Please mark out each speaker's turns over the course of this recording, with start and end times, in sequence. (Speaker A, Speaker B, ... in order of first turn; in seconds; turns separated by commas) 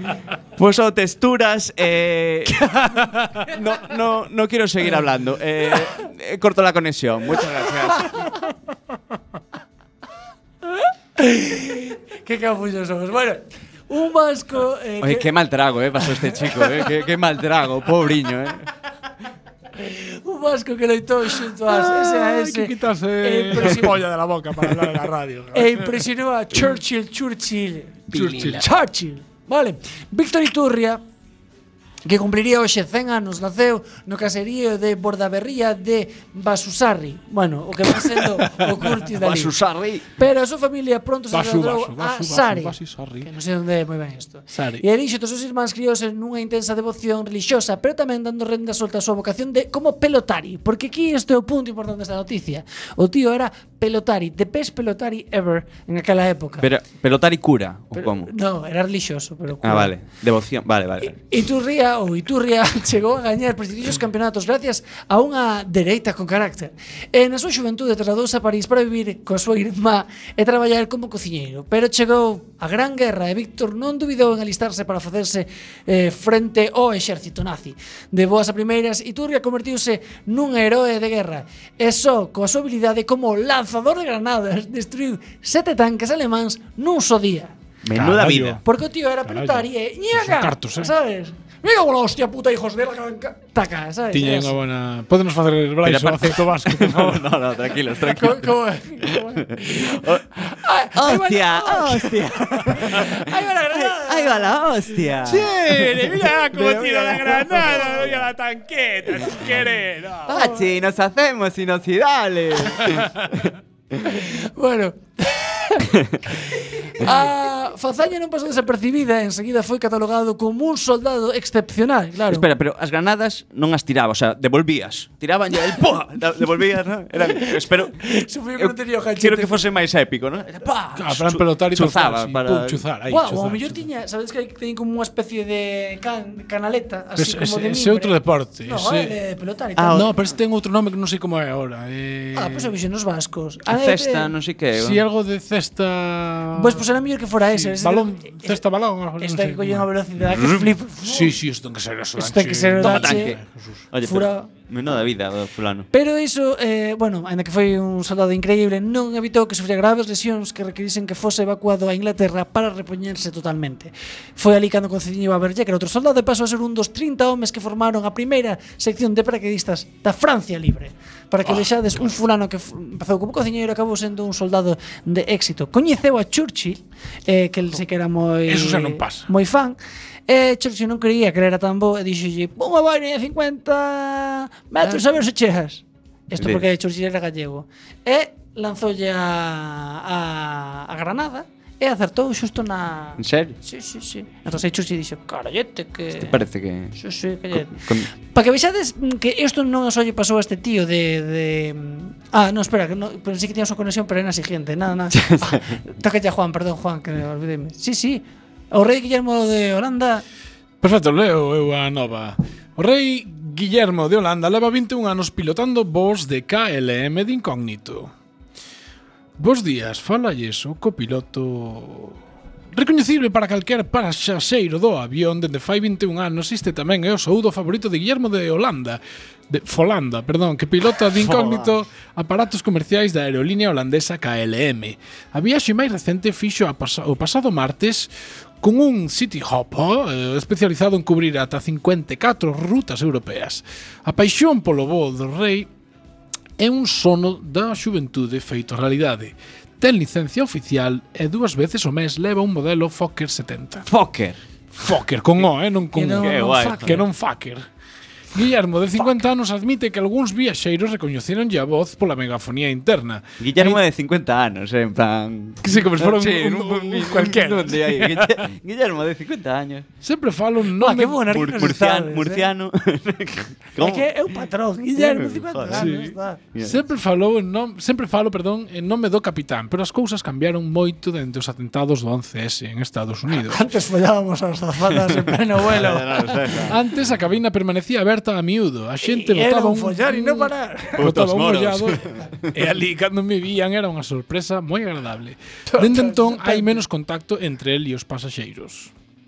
Speaker A: 0.6-8.2, Speaker B: 11.2-15.3, Speaker A: 15.0-18.6, Speaker B: 19.8-24.0, Speaker C: 21.5-26.1, Speaker B: 25.5-31.0, Speaker C: 28.1-28.7, Speaker B: 32.0-39.5, Speaker A: 39.1-40.1, Speaker B: 40.2-56.7, Speaker C: 41.3-43.3, Speaker C: 44.5-44.8, Speaker A: 56.6-58.3, Speaker B: 57.9-59.9, Speaker A: 59.6-61.2, Speaker B: 61.0-87.5, Speaker A: 87.8-88.6, Speaker C: 87.9-88.6, Speaker B: 88.6-94.5, Speaker C: 89.2-90.9, Speaker C: 94.1-97.3, Speaker A: 95.8-98.5, Speaker B: 98.0-104.6, Speaker A: 99.5-100.2, Speaker A: 100.9-103.2, Speaker A: 103.7-108.3, Speaker C: 105.2-110.3, Speaker B: 110.2-110.7, Speaker A: 110.3-113.5, Speaker B: 114.0-115.9, Speaker B: 116.5-122.4, Speaker A: 122.3-128.0, Speaker B: 127.4-129.6, Speaker A: 128.6-130.5, Speaker B: 130.5-131.0, Speaker C: 131.0-133.8, Speaker A: 131.1-132.8, Speaker B: 133.1-140.3, Speaker C: 137.2-139.1, Speaker A: 139.8-140.1, Speaker C: 139.9-142.7, Speaker B: 142.3-144.3, Speaker A: 143.7-145.0, Speaker C: 144.7-146.8, Speaker B: 146.5-148.6, Speaker C: 147.5-153.8, Speaker B: 149.2-151.4, Speaker B: 152.2-153.4, Speaker A: 152.8-155.9, Speaker B: 154.0-154.5, Speaker B: 155.9-196.4, Speaker C: 178.4-179.3, Speaker A: 186.4-186.7, Speaker A: 193.2-193.6, Speaker A: 196.1-197.0, Speaker B: 196.9-210.2, Speaker A: 197.5-198.1, Speaker A: 205.1-205.8, Speaker C: 210.8-218.1, Speaker C: 219.4-222.2, Speaker C: 222.7-238.1, Speaker A: 231.2-231.7, Speaker C: 238.6-245.7, Speaker C: 246.6-253.9, Speaker A: 253.8-254.4, Speaker C: 254.8-257.6, Speaker B: 255.9-257.0, Speaker A: 256.2-257.0, Speaker C: 258.3-263.8, Speaker A: 263.4-269.9, Speaker C: 265.6-268.4, Speaker C: 270.0-271.3, Speaker B: 270.8-272.5, Speaker A: 271.3-274.1, Speaker B: 273.8-276.4, Speaker A: 274.9-275.9, Speaker C: 275.7-283.6, Speaker A: 276.5-276.8, Speaker B: 283.3-286.4, Speaker A: 285.6-286.8, Speaker C: 286.6-298.9, Speaker B: 289.0-291.0, Speaker A: 291.0-292.5, Speaker B: 295.7-296.8